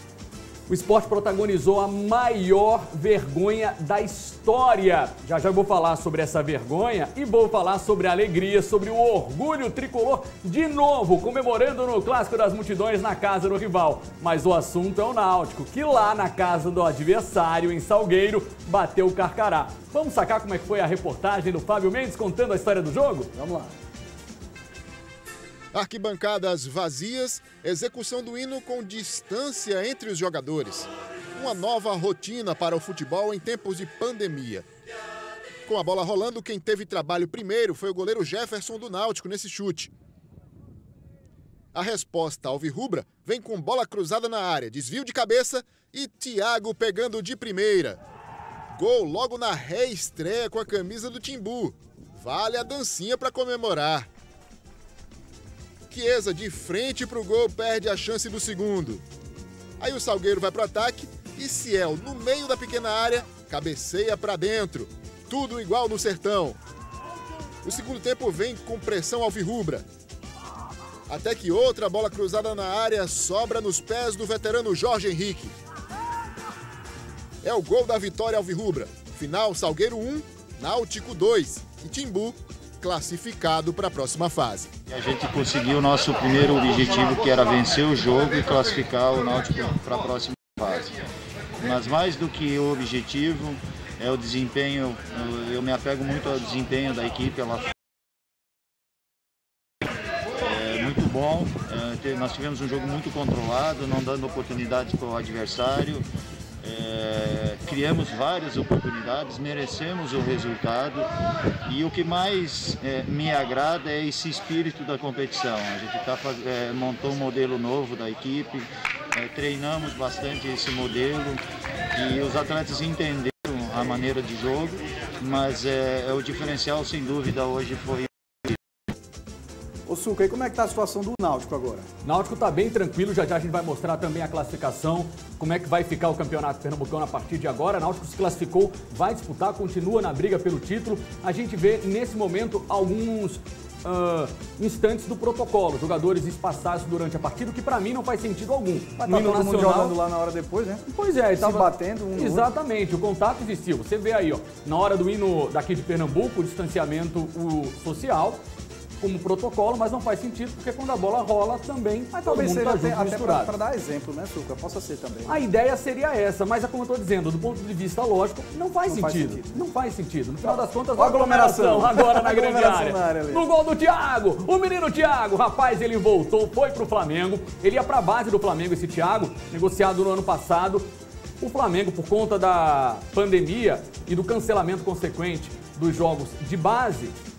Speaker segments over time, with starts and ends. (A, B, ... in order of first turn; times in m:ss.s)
0:00.7-0:23.3 A
0:23.3-0:23.7 B
0:25.7-0:34.6 C
0:35.6-0:39.9 C
0:41.7-0:48.0 C
0:48.7-0:54.1 C
0:55.9-0:59.0 C
0:59.8-1:06.6 C
1:07.6-1:09.8 C
1:11.1-1:15.6 C
1:17.4-1:24.7 C
1:24.9-1:30.9 D
1:31.6-1:37.7 D
1:40.4-1:46.0 D
1:46.6-1:51.0 D
1:51.7-2:01.4 D
2:02.0-2:08.6 D
2:09.8-2:11.9 B
2:12.0-2:29.9 A
2:29.0-2:30.8 B
2:30.9-2:38.4 A
2:31.4-2:32.5 B
2:39.0-2:43.5 A
2:42.1-2:45.4 B
2:45.2-3:00.9 A
2:48.8-2:49.6 B
2:50.4-2:53.4 B
3:01.4-3:07.1 A